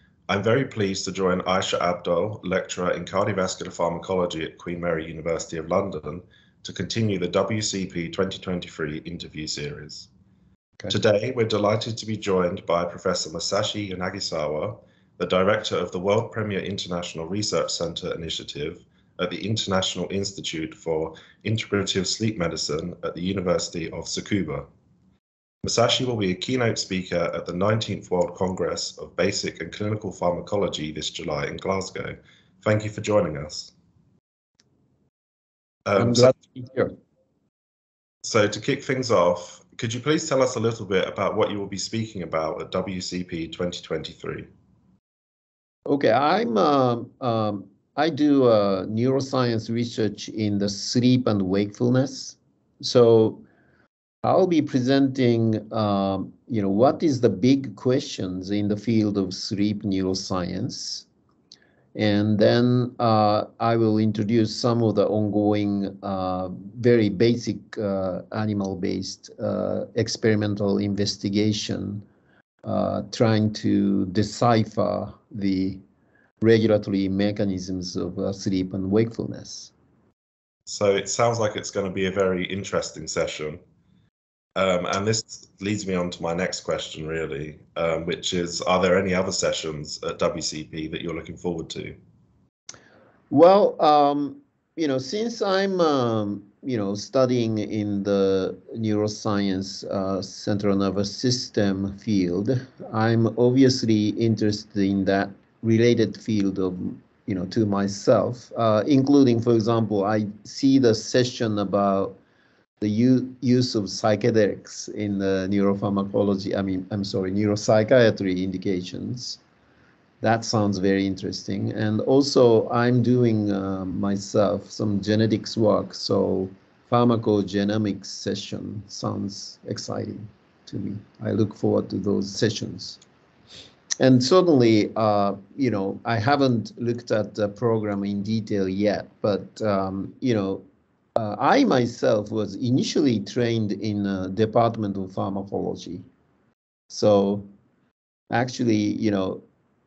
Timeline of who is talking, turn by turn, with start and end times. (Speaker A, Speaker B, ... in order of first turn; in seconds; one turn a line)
Speaker A: 0.3-10.1
Speaker A: 10.9-24.7
Speaker A: 25.6-33.7
Speaker A: 35.9-36.3
Speaker B: 36.0-36.9
Speaker A: 38.2-44.5
Speaker B: 45.9-53.4
Speaker B: 54.2-61.1
Speaker B: 62.0-72.0
Speaker B: 72.7-75.8
Speaker B: 76.4-79.7
Speaker A: 80.7-83.6
Speaker A: 84.6-92.0
Speaker B: 93.3-112.2
Speaker B: 112.8-119.4
Speaker B: 120.2-133.0
Speaker B: 134.0-140.6
Speaker B: 141.2-146.1
Speaker B: 146.9-147.5
Speaker B: 148.3-149.4